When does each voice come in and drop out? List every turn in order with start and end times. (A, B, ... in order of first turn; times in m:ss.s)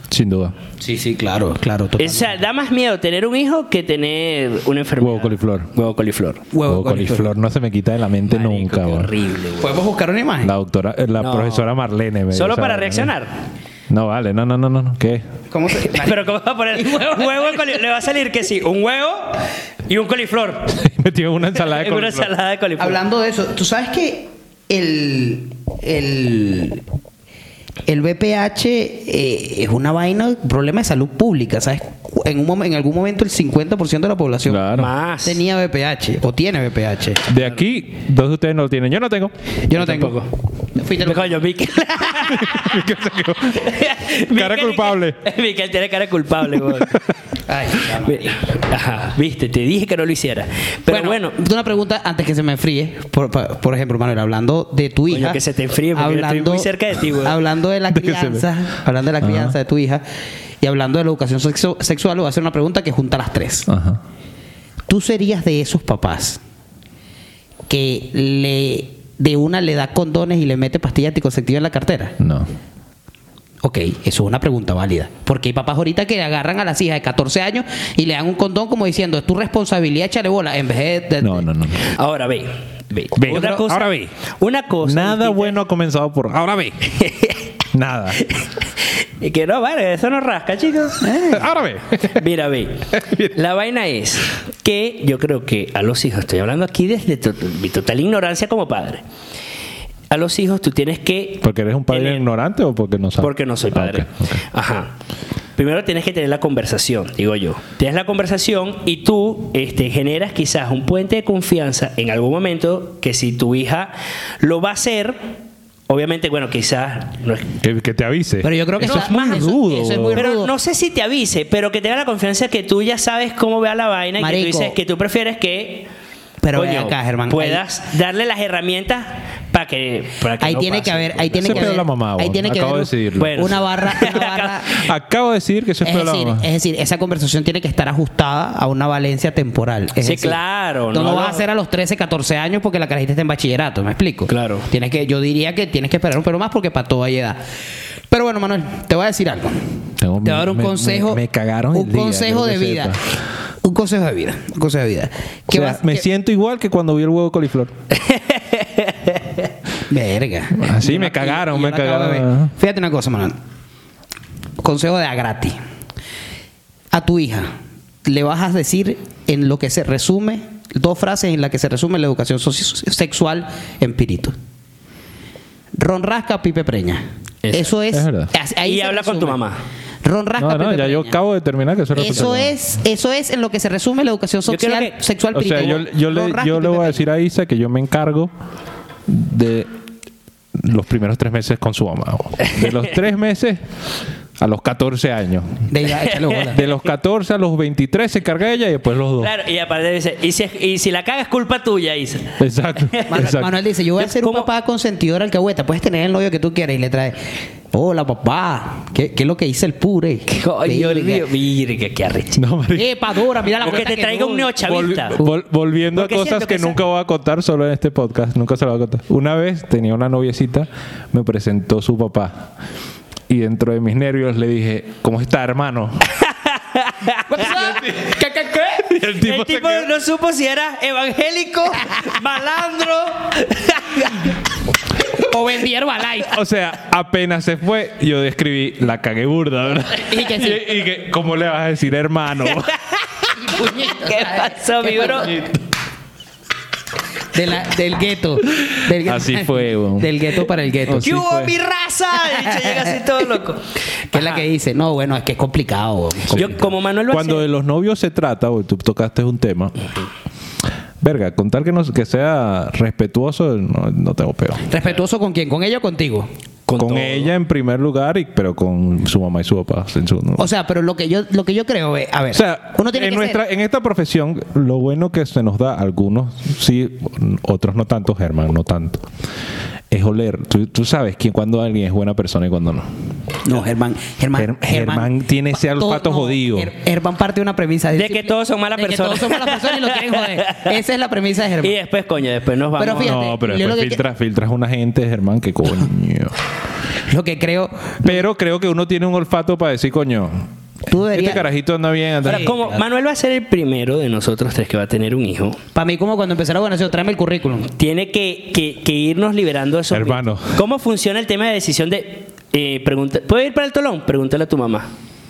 0:00.1-0:00.6 A
0:00.8-0:02.4 B
0:02.0-0:06.4 C
0:05.0-0:05.7 A
0:06.5-0:07.3 B
0:06.6-0:09.1 A
0:08.3-0:09.7 C
0:09.6-0:10.5 B
0:10.4-0:13.1 A
0:11.2-0:11.7 C
0:12.3-0:13.3 C
0:13.9-0:15.2 A
0:15.5-0:17.7 B
0:15.8-0:20.8 C
0:20.7-0:22.3 A
0:21.6-0:23.0 C
0:22.8-0:26.8 B
0:27.9-0:34.7 B
0:34.5-0:34.9 A
0:34.7-0:35.4 C
0:35.2-0:37.2 B
0:37.3-0:39.3 A
0:39.7-0:40.2 B
0:39.7-0:40.3 C
0:40.8-0:41.4 B
0:41.0-0:42.8 C
0:42.2-0:45.2 A
0:43.5-0:47.0 C
0:46.6-0:47.0 A
0:47.5-0:48.6 B
0:48.0-0:51.4 C
0:50.9-1:00.0 B
0:55.1-0:57.4 C
0:57.9-0:58.5 A
0:59.2-0:59.6 A
1:00.6-1:03.7 B
1:03.7-1:04.0 A
1:04.9-1:06.4 B
1:07.7-1:12.1 B
1:12.2-1:12.5 A
1:13.6-1:21.4 B
1:21.2-1:21.9 A
1:21.9-1:25.6 C
1:23.2-1:24.1 A
1:23.3-1:23.6 B
1:24.8-1:27.0 A
1:27.0-1:27.4 C
1:27.7-1:28.2 A
1:28.2-1:31.2 C
1:31.0-1:31.5 B
1:31.3-1:32.2 A
1:32.1-1:39.0 C
1:32.9-1:33.4 A
1:40.1-1:42.2 C
1:41.4-1:44.4 A
1:43.2-1:44.9 C
1:45.6-1:55.4 C
1:55.9-1:57.6 C
1:57.6-2:00.2 A
1:58.4-2:00.5 B
1:58.8-1:59.5 C
2:00.1-2:05.9 C
2:04.2-2:04.8 B
2:06.4-2:07.6 B
2:06.5-2:11.8 C
2:10.4-2:14.9 B
2:11.4-2:14.1 A
2:13.2-2:14.7 C
2:14.8-2:16.5 A
2:15.8-2:27.4 B
2:20.0-2:21.4 C
2:24.3-2:24.7 C
2:28.1-2:29.7 B
2:30.0-2:33.0 A
2:30.2-2:31.2 B
2:31.7-2:33.0 B
2:33.6-2:36.0 B
2:35.5-2:37.7 A
2:37.9-2:39.4 C
2:39.9-2:43.4 B
2:40.6-2:42.5 A
2:44.6-2:45.6 B
2:46.9-2:47.5 B
2:48.0-2:54.4 B
2:55.7-2:59.4 B
2:57.4-2:57.7 C
2:57.9-2:58.3 A
2:58.6-2:59.6 C
3:00.0-3:01.2 B
3:00.4-3:02.5 A
3:01.9-3:07.0 B
3:04.4-3:05.0 C
3:05.3-3:08.3 A
3:09.1-3:09.7 A
3:10.6-3:13.6 A
3:14.4-3:15.7 A
3:15.7-3:16.6 B
3:16.1-3:16.5 C
3:16.5-3:19.3 A
3:19.2-3:22.4 C
3:22.4-3:23.6 A
3:22.9-3:23.3 C
3:23.1-3:31.2 B
3:24.0-3:24.5 C
3:30.3-3:32.4 C
3:32.4-3:33.2 A
3:32.7-3:35.3 B
3:33.6-3:35.2 C
3:34.6-3:42.5 A
3:35.9-3:36.8 C
3:43.3-3:46.0 A
3:46.2-3:47.6 C
3:47.3-3:48.9 B
3:47.5-3:48.1 A
3:48.9-3:49.9 A
3:49.0-3:54.2 C
3:55.1-3:56.4 B
3:56.2-4:02.7 A
4:00.1-4:00.6 B
4:02.9-4:05.4 C
4:03.4-4:05.4 B
4:07.3-4:11.2 B
4:08.9-4:10.2 A
4:10.8-4:11.6 A
4:11.0-4:14.4 C
4:12.2-4:13.0 B
4:14.1-4:16.5 B
4:16.3-4:19.9 A
4:16.3-4:17.4 C
4:21.0-4:24.6 A
4:24.7-4:26.3 B
4:26.7-4:27.3 C
4:26.8-4:30.5 A
4:30.4-4:33.4 B
4:32.3-4:39.1 A
4:39.9-4:42.9 A
4:43.4-4:45.1 B
4:44.4-4:46.7 A
4:45.7-4:51.7 B
4:47.9-4:50.7 C
4:51.6-4:53.2 C
4:52.8-4:54.0 B
4:52.9-4:56.4 A
4:57.1-4:58.2 B
4:58.0-5:00.5 A
5:00.9-5:01.5 B
5:01.1-5:02.6 A
5:02.2-5:05.6 C
5:02.2-5:02.8 B
5:05.7-5:07.7 B
5:07.7-5:14.9 C
5:09.9-5:10.6 A